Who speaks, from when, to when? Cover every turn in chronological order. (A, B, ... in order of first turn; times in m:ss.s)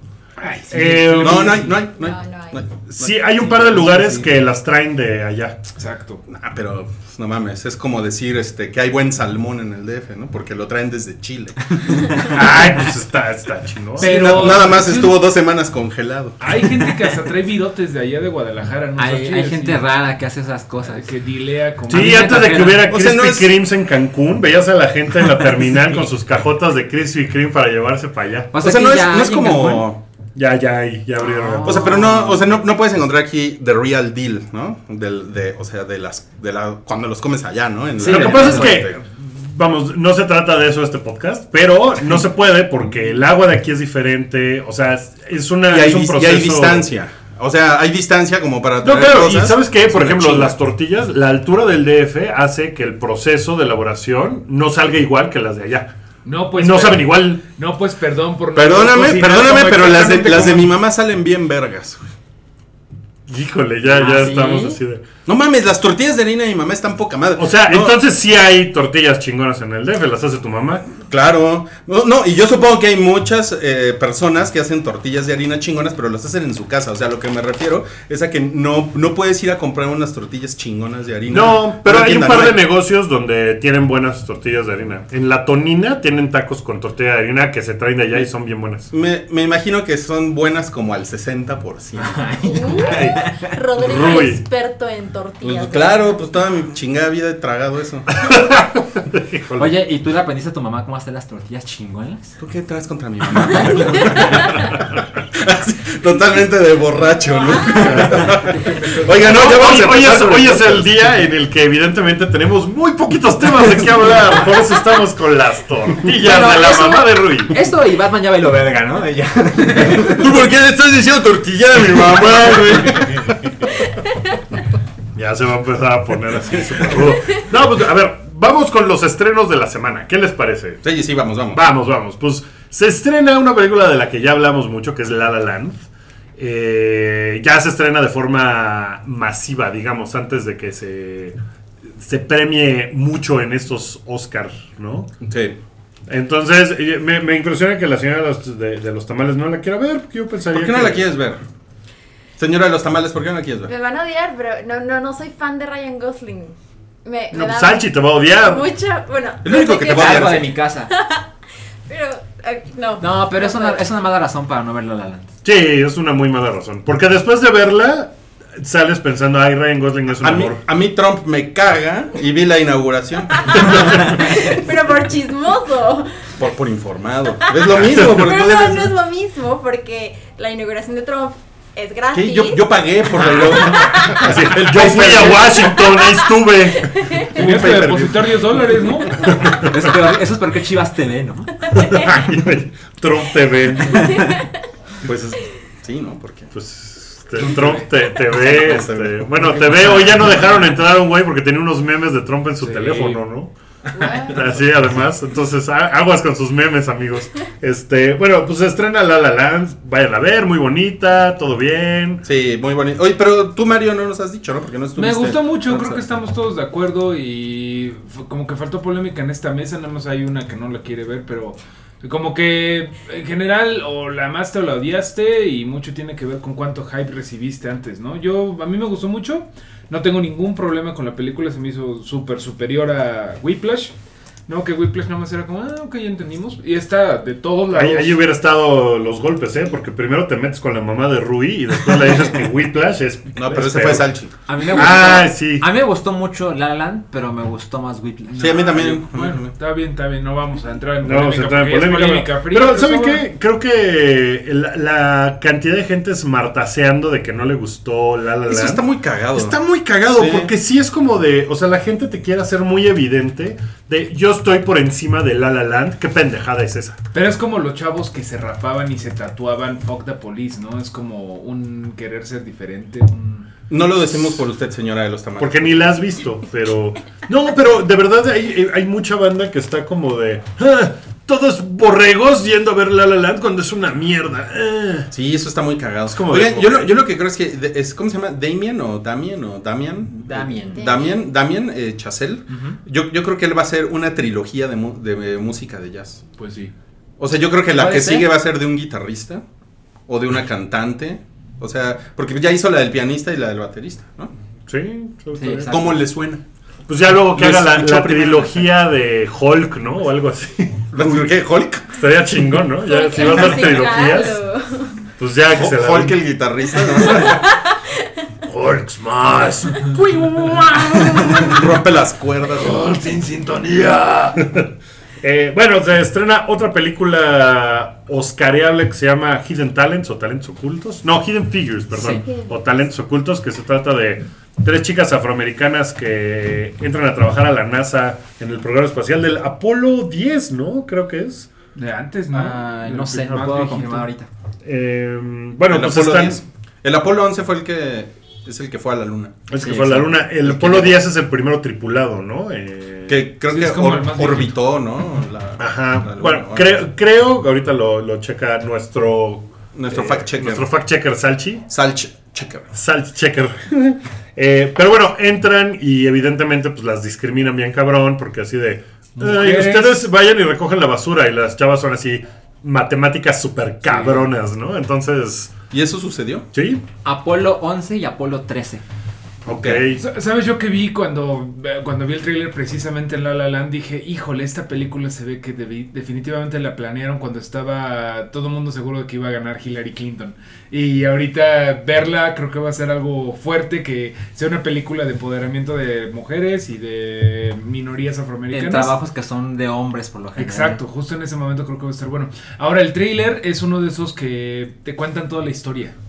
0:00.4-0:01.8 A
0:00.7-0:01.7 B
0:01.2-0:03.3 C
0:01.9-0:02.6 D
0:02.9-0:05.6 B
0:03.5-0:04.3 A
0:05.8-0:06.2 A
0:06.3-0:12.0 C
0:12.3-0:14.6 B
0:14.0-0:15.2 A
0:14.0-0:16.5 C
0:16.4-0:19.9 A
0:19.0-0:21.1 E
0:20.8-0:22.5 A
0:21.9-0:22.9 E
0:21.9-0:28.5 B
0:22.8-0:23.6 C
0:28.5-0:29.9 E
0:28.6-0:30.0 C
0:30.3-0:32.0 B
0:31.2-0:32.5 E
0:31.6-0:39.0 C
0:38.0-0:38.8 E
0:38.0-0:46.9 B
0:45.7-0:50.6 C
0:48.8-0:55.9 B
0:56.2-1:00.7 A
0:56.6-0:57.4 B
0:58.5-1:02.0 C
1:03.3-1:05.0 B
1:03.9-1:04.8 E
1:05.2-1:08.0 C
1:07.4-1:10.9 B
1:11.1-1:22.6 C
1:21.3-1:28.9 B
1:28.9-1:32.2 C
1:32.0-1:33.5 E
1:32.4-1:36.2 D
1:32.8-1:33.2 C
1:33.8-1:34.4 B
1:35.4-1:38.1 C
1:38.1-1:39.7 B
1:39.6-1:42.4 E
1:42.4-1:51.0 C
1:44.2-1:44.8 B
1:47.8-1:48.3 B
1:48.0-1:48.3 E
1:48.6-1:49.1 A
1:49.1-1:57.6 B
1:56.1-2:00.2 E
1:59.8-2:03.5 C
2:02.1-2:03.2 B
2:05.1-2:10.8 B
2:06.5-2:07.2 C
2:10.8-2:11.6 C
2:11.5-2:21.4 B
2:22.0-2:25.1 B
2:25.2-2:25.6 C
2:26.1-2:31.0 B
2:30.5-2:31.4 C
2:32.4-2:33.7 C
2:33.7-2:41.3 D
2:37.3-2:38.7 B
2:39.4-2:40.5 C
2:39.9-2:40.9 E
2:41.9-2:43.8 D
2:43.0-2:45.3 E
2:45.4-2:50.6 B
2:50.2-2:54.0 C
2:53.6-2:53.9 B
2:54.0-2:56.3 D
2:56.4-2:58.9 C
2:57.4-3:04.4 D
3:02.1-3:05.8 C
3:04.2-3:08.0 B
3:05.5-3:07.3 D
3:07.3-3:08.4 C
3:07.4-3:09.3 A
3:09.3-3:09.9 B
3:09.6-3:11.5 E
3:11.7-3:12.1 D
3:11.8-3:14.2 B
3:13.9-3:14.5 D
3:14.0-3:14.3 E
3:15.0-3:16.5 C
3:16.5-3:23.5 B
3:17.5-3:20.0 C
3:19.7-3:20.5 E
3:22.6-3:23.2 A
3:23.9-3:24.4 D
3:24.3-3:32.2 B
3:32.2-3:36.0 C
3:35.0-3:53.9 A
3:54.5-3:58.2 A
3:57.7-4:04.1 B
4:03.3-4:04.3 C
4:04.4-4:08.5 E
4:04.6-4:05.1 A
4:04.7-4:05.7 B
4:08.3-4:13.2 A
4:08.4-4:09.5 C
4:11.0-4:18.8 B
4:18.5-4:19.6 C
4:19.3-4:27.0 B
4:20.1-4:20.5 C
4:27.1-4:33.5 A
4:33.7-4:35.9 C
4:35.4-4:45.1 B
4:45.1-4:56.2 C
4:46.1-4:46.9 B
4:50.2-4:51.0 E
4:50.7-4:51.2 D
4:52.5-4:52.8 A
4:56.4-4:56.7 A
4:57.2-4:59.4 C
4:57.8-4:58.3 E
5:00.1-5:04.3 C
5:04.7-5:05.9 B
5:05.3-5:06.0 E
5:05.6-5:06.4 C
5:06.9-5:11.3 B
5:07.3-5:08.7 C
5:10.9-5:11.8 C
5:11.9-5:14.4 B
5:12.8-5:15.0 D
5:15.2-5:16.2 B
5:15.5-5:17.4 C
5:16.8-5:18.1 D
5:18.5-5:21.2 B
5:20.2-5:22.8 C
5:22.6-5:24.4 A
5:25.2-5:41.5 B
5:31.9-5:32.2 E
5:32.2-5:32.5 D
5:41.7-5:44.1 A
5:42.3-5:44.3 E
5:44.6-5:46.4 B
5:45.7-5:51.0 C
5:49.5-5:53.2 B
5:53.1-5:56.9 C
5:53.5-5:54.6 A
5:55.6-6:01.7 B
5:59.7-6:00.7 C
6:01.7-6:02.7 C
6:02.7-6:15.5 B
6:09.2-6:10.0 A
6:13.8-6:14.3 A
6:15.7-6:16.5 C
6:16.5-6:16.8 B
6:17.0-6:18.8 E
6:19.4-6:20.0 B
6:19.5-6:19.8 C
6:20.0-6:39.0 A
6:38.5-6:40.8 E
6:40.4-6:45.9 A